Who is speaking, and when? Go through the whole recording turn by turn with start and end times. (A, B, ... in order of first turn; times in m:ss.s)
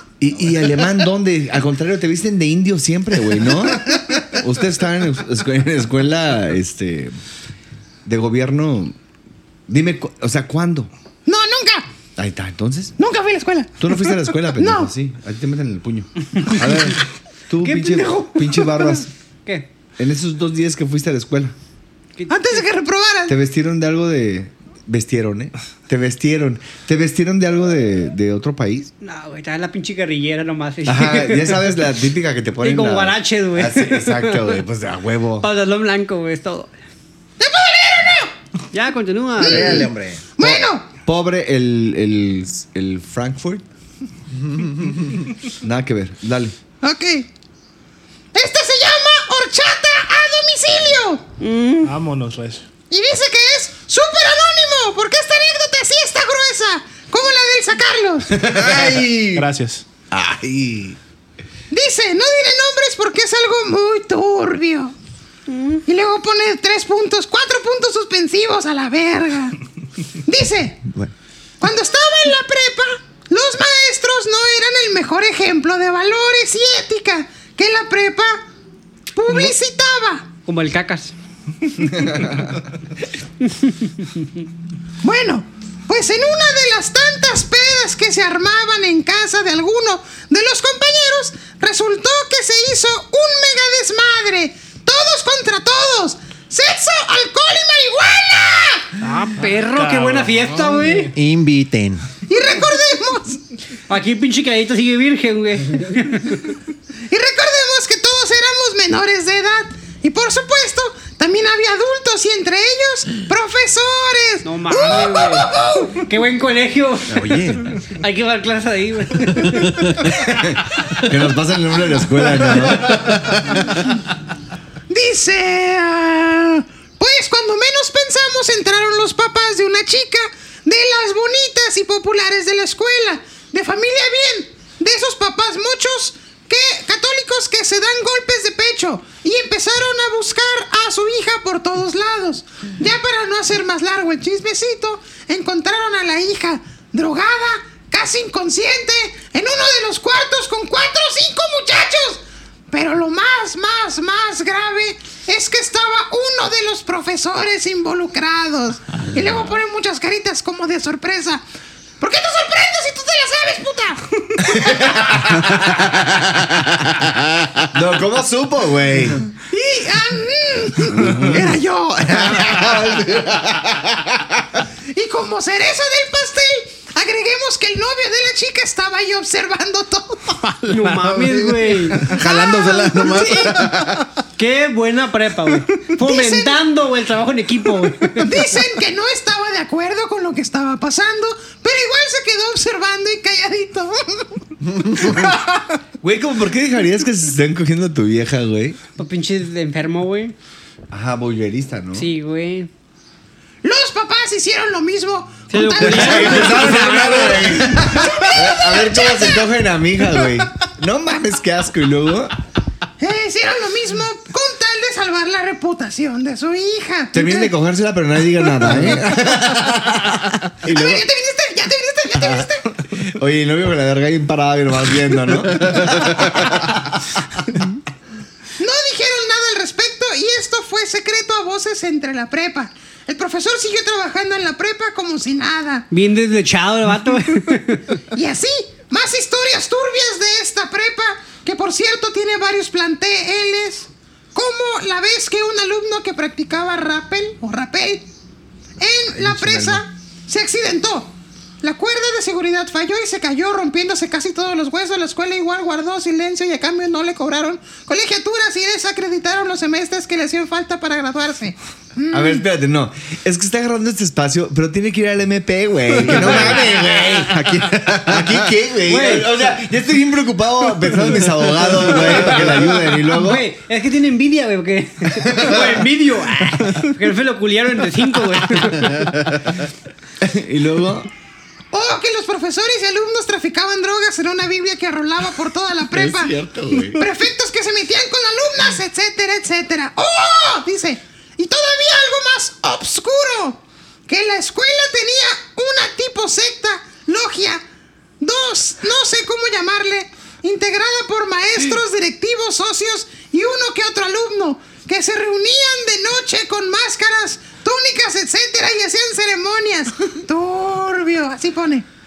0:00.2-0:07.1 A
0:08.0-0:08.9 A
0:09.7-0:10.9 A
0:11.2-0:11.9 B
0:12.2-0:13.0 A
0:13.0-0:14.9 B
0:13.8-0:19.1 A
0:17.6-0:19.7 C
0:20.0-0:21.5 A
0:22.2-0:22.6 C
0:22.3-0:23.3 B
0:23.3-0:28.9 A
0:29.0-0:31.7 C
0:30.8-0:35.5 A
0:32.6-0:34.6 C
0:35.4-0:36.7 C
0:37.4-0:38.3 B
0:38.7-0:39.9 C
0:39.4-0:40.2 D
0:39.4-0:39.8 A
0:40.4-0:40.8 B
0:40.4-0:43.6 A
0:44.4-0:45.1 D
0:45.5-0:46.5 A
0:46.8-0:47.3 B
0:48.3-0:51.2 B
0:51.4-0:51.9 C
0:51.8-0:52.6 E
0:52.9-0:58.4 B
0:58.3-0:59.4 A
0:59.3-0:59.8 E
1:00.1-1:01.0 A
1:01.7-1:04.9 B
1:05.5-1:05.8 C
1:05.9-1:09.6 B
1:10.2-1:10.8 B
1:11.6-1:18.4 B
1:19.1-1:20.3 B
1:20.4-1:21.1 C
1:23.4-1:24.1 C
1:25.0-1:38.9 B
1:39.0-1:41.1 C
1:39.1-1:41.1 E
1:41.1-1:42.1 D
1:42.3-1:43.4 B
1:43.9-1:46.6 C
1:47.1-1:56.0 B
1:54.4-2:00.1 C
1:57.1-1:57.7 D
2:00.1-2:03.7 A
2:04.9-2:41.4 B
2:42.0-2:44.9 B
2:44.5-2:46.4 A
2:46.8-2:47.5 D
2:47.7-2:49.3 A
2:49.5-2:52.2 B
2:50.8-2:54.5 A
2:52.5-2:52.7 D
2:54.9-3:00.4 B
3:00.6-3:02.1 C
3:02.0-3:04.0 D
3:02.1-3:03.8 B
3:04.4-3:08.4 C
3:06.0-3:06.6 B
3:08.2-3:15.4 B
3:16.0-3:18.8 A
3:19.0-3:20.3 C
3:20.9-3:22.1 A
3:21.9-3:22.7 C
3:23.6-3:29.4 B
3:25.5-3:27.9 C
3:25.8-3:32.4 A
3:33.0-3:37.5 B
3:37.1-3:41.0 A
3:40.7-3:42.8 B
3:42.2-3:46.9 A
3:48.6-3:55.9 B
3:55.9-3:57.9 C
3:58.1-4:08.1 B
4:08.8-4:22.4 B
4:09.1-4:09.8 D
4:22.1-4:33.5 A
4:26.1-4:28.5 D
4:28.8-4:29.3 C
4:33.0-4:39.5 C
4:40.2-4:41.1 A
4:41.7-4:57.6 B
4:45.9-4:47.0 A
4:58.2-5:11.8 B